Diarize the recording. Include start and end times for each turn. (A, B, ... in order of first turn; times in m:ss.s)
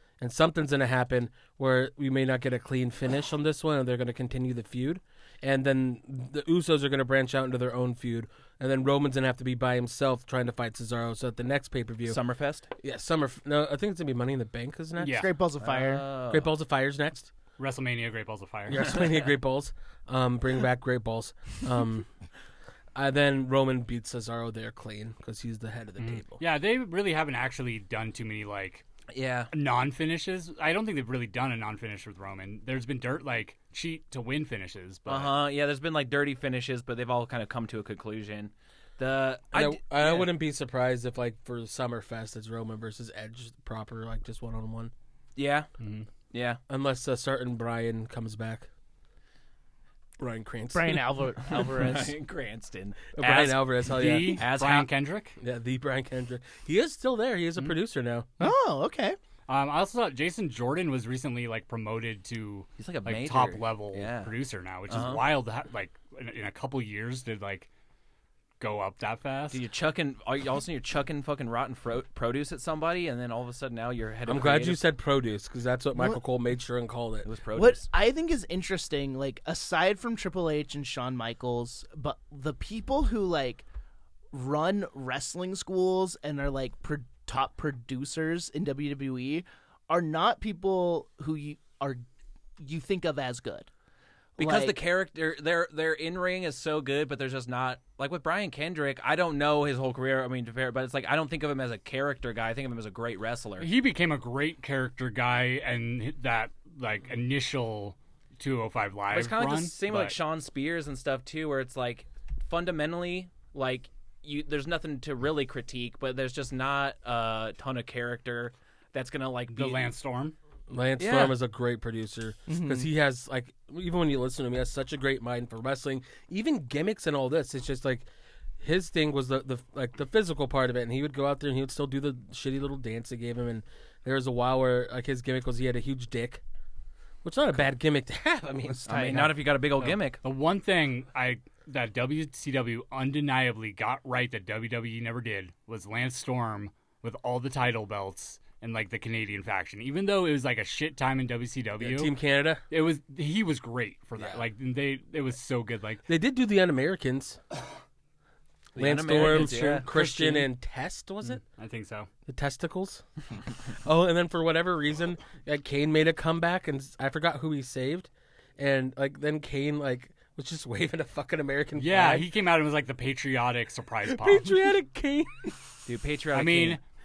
0:00.2-0:12.2 A
0:12.1-0:12.7 B
0:12.8-0:15.3 A
0:15.0-0:15.2 C
0:15.0-0:16.0 D
0:15.6-0:16.5 B
0:16.3-0:17.3 A
0:17.6-0:19.0 C
0:18.7-0:22.1 A
0:22.9-0:26.4 A
0:26.0-0:28.8 C
0:29.1-0:29.5 B
0:29.5-0:35.3 C
0:35.1-0:40.3 B
0:39.5-0:44.9 A
0:45.4-0:45.7 B
0:45.8-0:46.1 C
0:46.3-0:46.6 B
0:46.7-0:48.7 A
0:50.2-0:51.0 A
0:50.7-0:52.2 D
0:51.4-0:53.6 B
0:53.2-0:54.4 A
0:53.8-0:55.4 C
0:54.2-0:54.9 B
0:55.4-0:58.3 A
0:58.4-0:59.2 D
0:59.5-1:07.7 C
1:02.8-1:04.3 B
1:04.9-1:05.2 B
1:08.6-1:09.6 C
1:09.5-1:14.8 B
1:14.3-1:17.3 A
1:15.9-1:16.2 D
1:17.2-1:17.8 B
1:17.5-1:23.6 D
1:24.3-1:32.0 D
1:32.6-1:33.7 D
1:34.4-1:34.8 D
1:34.4-1:43.7 B
1:43.6-1:50.1 C
1:49.1-1:59.8 B
1:59.5-2:00.3 C
2:00.7-2:08.0 A
2:01.0-2:01.4 B
2:02.5-2:02.9 D
2:08.6-2:16.4 A
2:17.2-2:19.3 A
2:18.8-2:19.3 D
2:18.8-2:20.2 B
2:19.8-2:32.1 C
2:31.8-2:32.6 A
2:32.7-2:36.0 C
2:34.2-2:34.4 A
2:36.0-2:37.4 A
2:38.8-2:39.9 B
2:38.8-2:41.4 A
2:39.1-2:40.5 C
2:41.2-2:42.1 C
2:42.3-2:43.0 A
2:43.8-2:52.3 A
2:51.8-2:54.6 C
2:54.0-2:55.5 A
2:55.8-2:56.8 B
2:56.3-2:56.8 C